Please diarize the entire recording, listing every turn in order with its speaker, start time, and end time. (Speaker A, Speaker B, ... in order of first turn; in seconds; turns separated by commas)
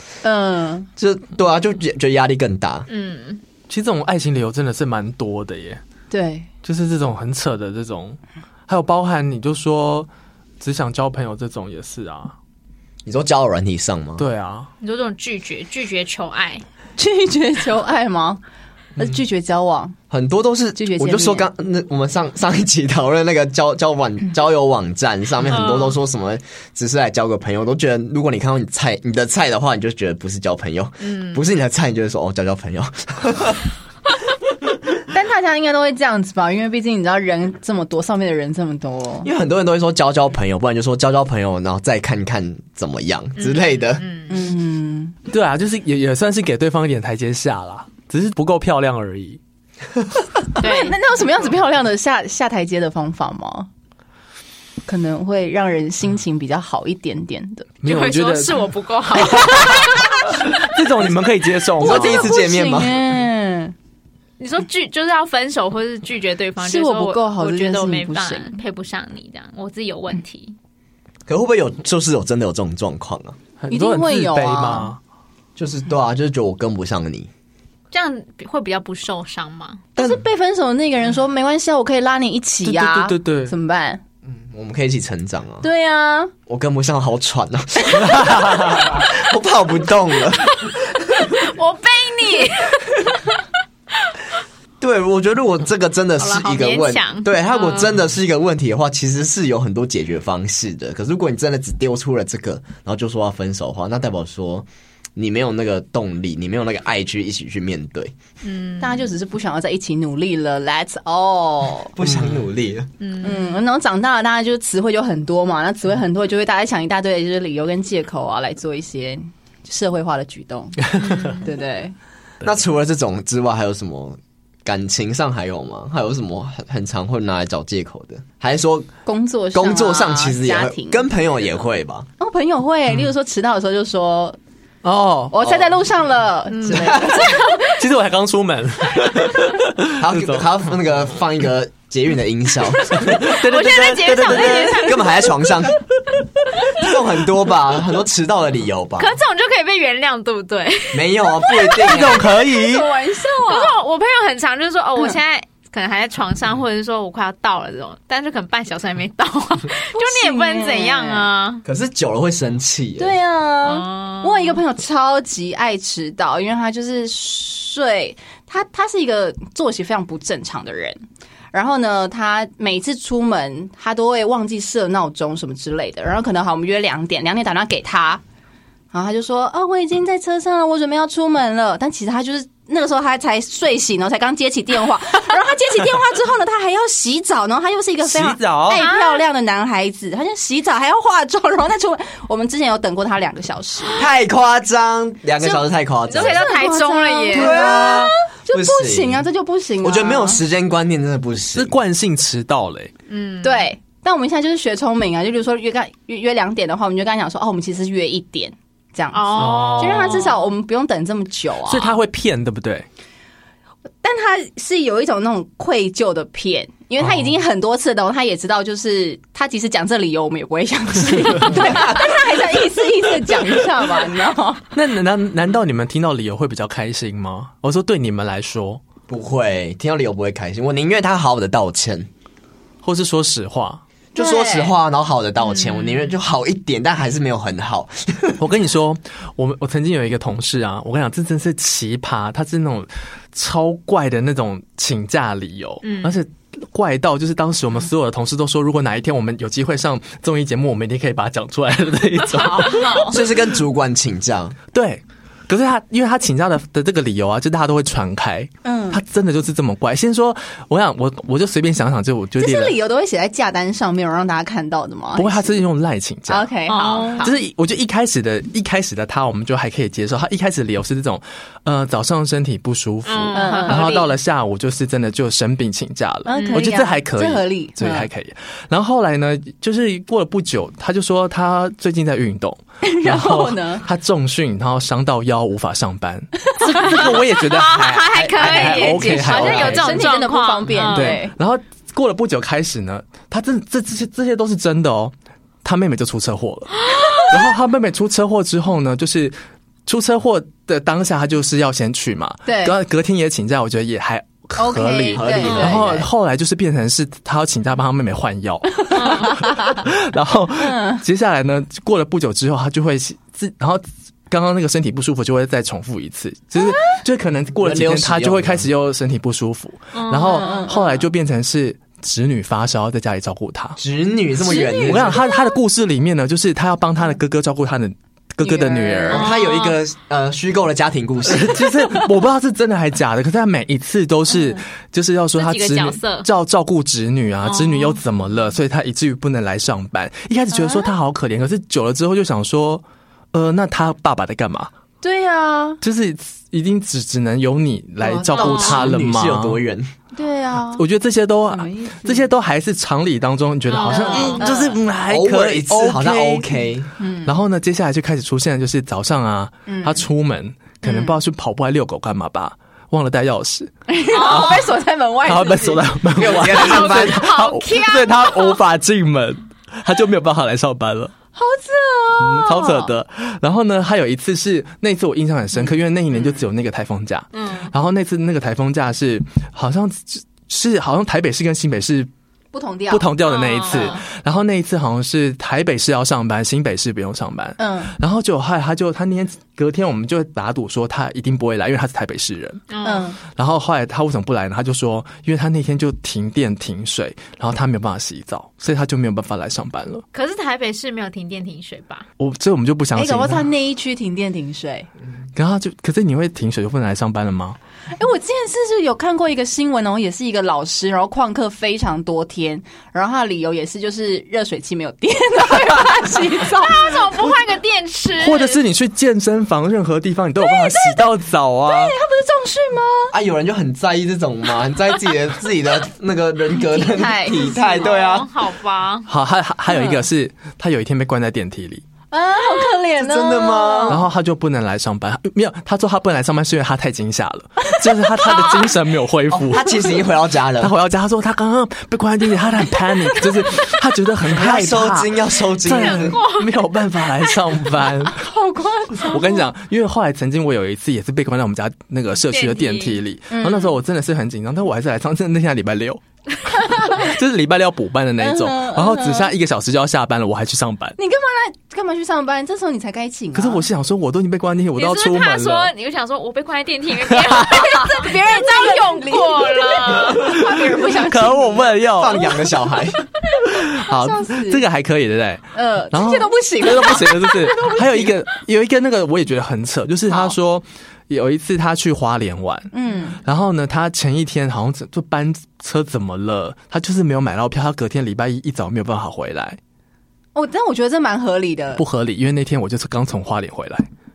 Speaker A: 0.2-0.9, Speaker B: 1.0-2.9, Speaker C: 2.9-3.4, Speaker D: 3.7-5.8, Speaker A: 6.1-6.5, Speaker D: 6.6-10.1, Speaker D: 10.6-12.3, Speaker B: 13.0-14.3, Speaker D: 14.2-14.7, Speaker C: 14.8-16.6, Speaker A: 17.0-18.4, Speaker A: 19.0-19.9, Speaker B: 20.1-33.7, Speaker A: 20.7-21.5, Speaker C: 25.4-26.0, Speaker C: 31.0-31.4, Speaker A: 35.1-39.3, Speaker B: 39.2-44.0, Speaker C: 43.4-44.5, Speaker A: 44.3-45.1, Speaker D: 45.3-49.4, Speaker C: 50.6-51.0, Speaker A: 50.6-53.7, Speaker A: 54.9-57.7, Speaker D: 57.8-58.6, Speaker C: 57.8-60.6, Speaker D: 59.2-59.9, Speaker D: 60.5-62.3, Speaker B: 61.8-63.0, Speaker A: 61.8-63.7, Speaker C: 64.4-70.5, Speaker A: 66.6-68.6, Speaker B: 71.3-73.4, Speaker D: 73.6-75.0, Speaker A: 73.7-74.9, Speaker B: 75.6-77.3, Speaker C: 77.9-79.8, Speaker A: 79.9-84.0, Speaker D: 82.6-83.5, Speaker B: 84.2-85.6, Speaker A: 85.6-86.3, Speaker B: 86.5-90.7, Speaker D: 87.9-88.9, Speaker C: 90.5-93.3, Speaker B: 94.8-108.1, Speaker C: 96.2-97.9, Speaker C: 108.4-109.1, Speaker A: 108.8-111.9, Speaker B: 111.9-112.9, Speaker D: 112.0-112.3, Speaker C: 113.0-113.6, Speaker A: 113.2-121.9, Speaker C: 121.0-121.5, Speaker B: 122.4-128.9, Speaker A: 129.1-131.1, Speaker B: 129.5-132.1, Speaker A: 132.2-134.4, Speaker D: 134.8-135.3, Speaker A: 135.3-137.7, Speaker B: 135.4-135.7, Speaker D: 136.6-136.9, Speaker B: 136.7-137.2, Speaker C: 137.3-137.5, Speaker D: 137.6-140.5, Speaker B: 139.9-145.8, Speaker D: 142.9-144.7, Speaker C: 143.2-145.4, Speaker B: 146.7-149.2, Speaker C: 149.0-152.1, Speaker B: 150.9-152.3, Speaker D: 151.8-152.9, Speaker A: 152.3-153.8, Speaker C: 153.4-161.6, Speaker A: 159.9-161.3, Speaker B: 161.6-163.2, Speaker A: 163.0-171.0, Speaker C: 163.6-164.6, Speaker A: 171.5-178.2, Speaker A: 178.9-194.0, Speaker D: 188.0-188.8, Speaker C: 188.7-189.2, Speaker C: 193.8-194.1, Speaker B: 193.9-196.5, Speaker C: 196.1-197.6, Speaker A: 196.1-200.4, Speaker B: 197.3-199.2, Speaker D: 197.6-198.0, Speaker B: 199.8-201.8, Speaker D: 201.5-202.9, Speaker C: 203.1-203.7, Speaker A: 203.4-212.0, Speaker C: 209.1-210.4, Speaker D: 209.3-210.2, Speaker D: 211.7-212.9, Speaker A: 214.0-224.6, Speaker D: 217.0-217.3, Speaker B: 221.6-222.2, Speaker D: 224.7-228.8, Speaker B: 229.1-232.1, Speaker D: 232.8-233.8, Speaker B: 234.1-238.4, Speaker A: 234.2-234.7, Speaker C: 235.4-236.1, Speaker D: 238.4-253.2, Speaker C: 245.8-246.2, Speaker C: 252.4-253.2, Speaker B: 252.8-254.6, Speaker D: 254.7-262.7, Speaker A: 258.6-259.0, Speaker A: 262.4-265.6, Speaker D: 265.1-266.5, Speaker A: 266.3-267.3, Speaker C: 266.7-267.3, Speaker D: 267.2-290.1, Speaker C: 273.1-274.2, Speaker A: 273.3-274.0, Speaker A: 276.2-278.1, Speaker C: 276.4-276.7, Speaker A: 282.8-283.9, Speaker A: 286.4-287.2, Speaker C: 286.8-291.2, Speaker B: 288.0-289.8, Speaker A: 289.4-291.3, Speaker D: 290.9-295.1, Speaker D: 295.6-323.8, Speaker C: 296.9-297.3, Speaker A: 302.4-302.7, Speaker A: 304.6-306.0, Speaker B: 305.1-306.1, Speaker C: 305.4-305.7, Speaker A: 308.9-309.8, Speaker C: 308.9-309.4, Speaker A: 310.6-311.0, Speaker B: 317.6-318.6, Speaker C: 319.9-320.7, Speaker A: 320.3-321.0, Speaker B: 323.8-325.2, Speaker A: 324.4-325.2, Speaker D: 324.9-329.3, Speaker A: 328.4-329.2, Speaker B: 329.1-331.7, Speaker C: 329.1-329.8, Speaker D: 331.3-344.7, Speaker C: 335.4-336.3, Speaker C: 337.4-338.0, Speaker A: 340.5-340.9, Speaker A: 345.0-345.8, Speaker D: 345.8-349.6, Speaker A: 348.0-348.3, Speaker B: 348.3-349.9, Speaker C: 348.3-348.8, Speaker A: 350.1-350.8, Speaker D: 350.7-356.4, Speaker A: 351.5-352.3, Speaker C: 353.7-354.5, Speaker A: 353.9-354.8, Speaker B: 355.1-356.9, Speaker A: 357.0-357.4, Speaker D: 357.2-363.7, Speaker A: 359.7-360.0, Speaker A: 360.8-361.2, Speaker A: 363.9-366.0, Speaker C: 364.1-364.7, Speaker D: 364.2-364.7, Speaker D: 365.2-371.1, Speaker B: 366.1-367.3, Speaker C: 366.4-368.6, Speaker A: 371.4-372.9, Speaker D: 372.2-382.1, Speaker C: 377.3-377.7, Speaker A: 382.5-383.1, Speaker D: 382.9-392.6, Speaker C: 383.2-384.0, Speaker A: 387.6-388.0, Speaker C: 392.7-393.1, Speaker A: 392.8-393.2, Speaker D: 393.3-400.0, Speaker C: 400.1-402.1, Speaker D: 402.2-403.5, Speaker A: 402.9-404.9, Speaker D: 405.3-407.6, Speaker A: 407.9-417.2, Speaker C: 416.4-418.6, Speaker D: 418.2-421.9, Speaker A: 420.4-421.1, Speaker A: 421.6-423.1, Speaker B: 423.1-428.3, Speaker A: 426.5-427.9, Speaker C: 427.4-429.1, Speaker D: 429.1-431.8, Speaker A: 429.7-430.0, Speaker A: 432.1-434.0, Speaker B: 433.0-434.0, Speaker D: 433.9-439.8, Speaker C: 438.2-438.7, Speaker B: 439.3-440.7, Speaker D: 440.6-448.2, Speaker B: 444.2-446.2, Speaker C: 445.6-447.6, Speaker A: 448.1-449.5, Speaker D: 448.9-456.0, Speaker C: 452.3-453.0, Speaker A: 453.3-453.8, Speaker A: 456.6-457.1, Speaker D: 456.6-460.9, Speaker A: 458.2-459.3, Speaker A: 461.0-463.7, Speaker D: 463.3-465.7, Speaker C: 464.8-470.5, Speaker D: 467.0-468.0, Speaker A: 467.4-471.9, Speaker D: 470.0-472.4, Speaker B: 471.9-473.0, Speaker D: 473.4-489.6, Speaker A: 473.5-474.6, Speaker A: 475.5-478.1, Speaker A: 480.1-480.3, Speaker A: 482.7-483.2, Speaker A: 490.3-491.8, Speaker D: 491.8-493.9